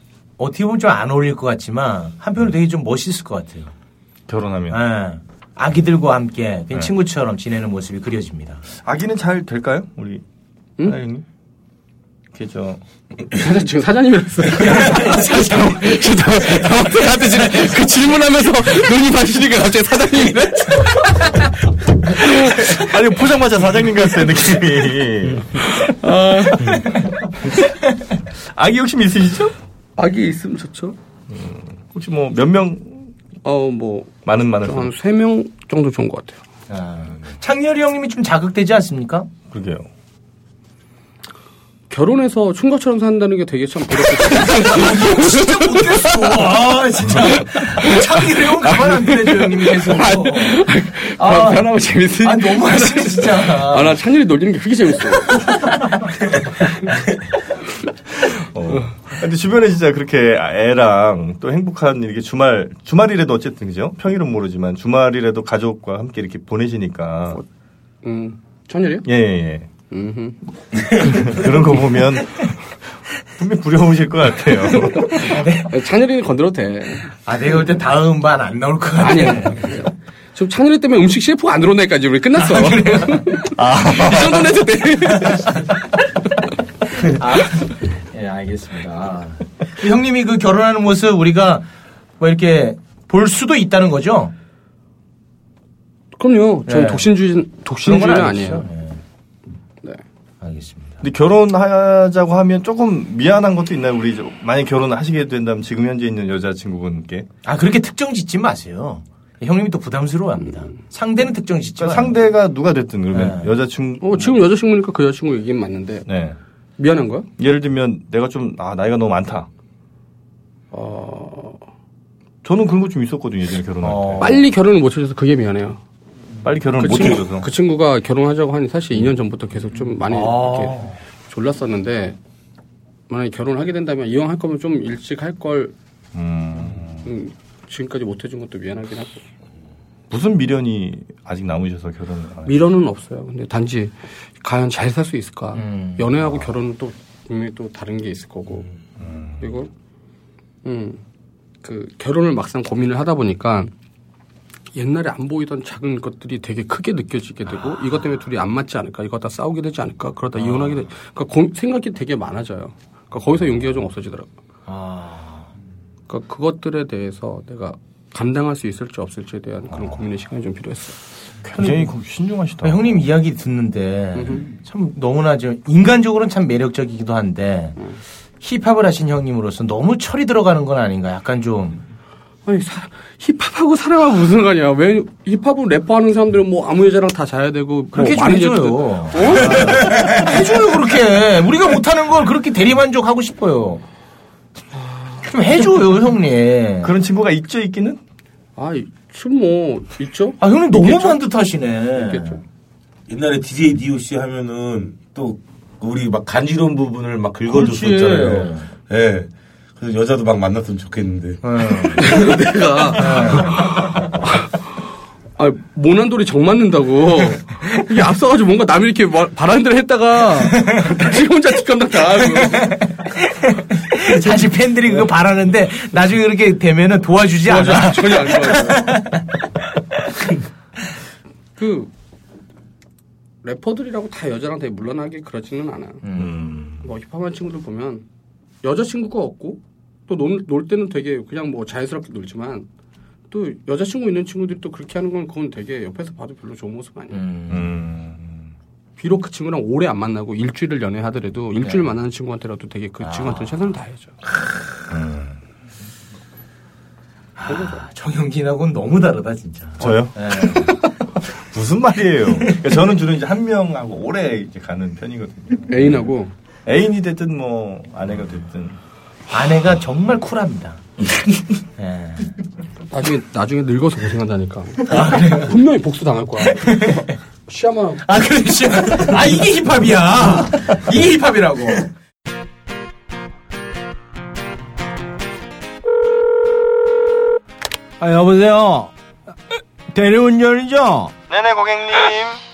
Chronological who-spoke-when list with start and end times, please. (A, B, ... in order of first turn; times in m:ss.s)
0:00.4-0:03.7 A
0:04.3-0:04.8 B
0:04.7-0:08.6 A
0:08.8-0:10.2 B
0:10.8-0:11.2 B
0:12.3-0:12.8 B
0:13.4-0:21.4 C
0:14.6-0:17.8 A
0:22.2-0:22.8 C
0:22.5-0:25.9 B
0:25.6-0:27.0 C
0:28.5-0:29.5 B
0:30.0-0:31.0 C
0:31.3-0:33.1 B
0:33.4-0:36.4 C
0:34.3-0:34.9 B
0:36.7-0:39.3 A
0:39.5-0:39.9 B
0:41.9-0:46.6 C
0:44.3-0:54.0 A
0:47.2-0:55.5 C
0:55.3-0:55.9 A
0:58.2-1:07.4 B
1:08.0-1:09.1 C
1:09.0-1:09.7 B
1:09.9-1:10.4 C
1:11.0-1:12.7 B
1:13.4-1:15.3 B
1:15.2-1:15.7 A
1:15.7-1:17.1 C
1:17.2-1:19.8 A
1:19.0-1:25.5 C
1:22.4-1:23.5 A
1:23.6-1:24.5 B
1:25.2-1:25.6 A
1:27.0-1:31.7 A
1:32.2-1:34.3 A
1:36.2-1:38.7 C
1:36.7-1:37.1 A
1:37.8-1:39.0 A
1:40.4-1:41.0 A
1:41.0-1:47.3 B
1:47.4-1:52.2 A
1:51.8-1:54.4 B
1:53.1-1:53.5 A
1:54.0-1:56.1 C
1:56.1-1:56.4 B
1:56.8-1:57.3 C
1:57.4-1:59.5 B
2:00.7-2:01.6 C
2:02.4-2:04.4 B
2:03.8-2:04.4 A
2:04.2-2:05.8 C
2:06.4-2:07.5 B
2:06.8-2:12.2 C
2:10.1-2:11.0 A
2:13.1-2:15.8 C
2:16.1-2:17.1 B
2:17.0-2:19.2 C
2:20.1-2:22.6 B
2:22.5-2:28.7 C
2:25.6-2:26.1 A
2:29.4-2:29.7 C
2:30.6-2:31.0 C
2:31.6-2:33.7 C
2:34.8-2:44.3 C
2:44.7-2:45.5 A
2:46.1-2:51.0 C
2:51.4-2:53.0 B
2:51.6-2:51.8 A
2:52.6-2:57.8 A
2:54.2-2:54.4 C
2:58.4-3:01.8 A
3:02.5-3:10.2 C
3:07.9-3:13.8 A
3:14.8-3:15.3 C
3:15.2-3:16.9 A
3:16.8-3:18.0 B
3:18.6-3:21.2 C
3:20.4-3:22.4 A
3:22.0-3:22.4 C
3:23.1-3:31.4 D
3:27.5-3:28.7 A
3:31.4-3:32.1 A
3:32.0-3:34.5 C
3:33.0-3:33.7 A
3:35.4-3:42.8 C
3:40.5-3:41.1 A
3:42.3-3:49.2 A
3:47.4-3:49.0 C
3:51.6-3:51.9 C
3:53.4-3:56.0 C
3:56.0-3:56.4 A
3:56.2-3:56.8 B
3:56.8-3:58.0 C
3:58.6-4:02.7 C
4:03.3-4:07.3 C
4:07.1-4:07.7 A
4:07.5-4:08.5 B
4:09.0-4:14.2 C
4:11.6-4:11.9 A
4:13.0-4:13.5 A
4:14.9-4:15.4 B
4:17.4-4:20.9 A
4:17.5-4:17.8 C
4:19.8-4:26.1 B
4:25.7-4:26.3 C
4:26.7-4:28.8 B
4:29.3-4:30.8 A
4:31.8-4:32.4 A
4:32.9-4:38.0 C
4:34.9-4:35.6 A
4:36.5-4:37.1 A
4:38.0-4:41.9 A
4:48.0-4:48.9 A
4:49.9-4:51.1 A
4:51.3-4:52.4 B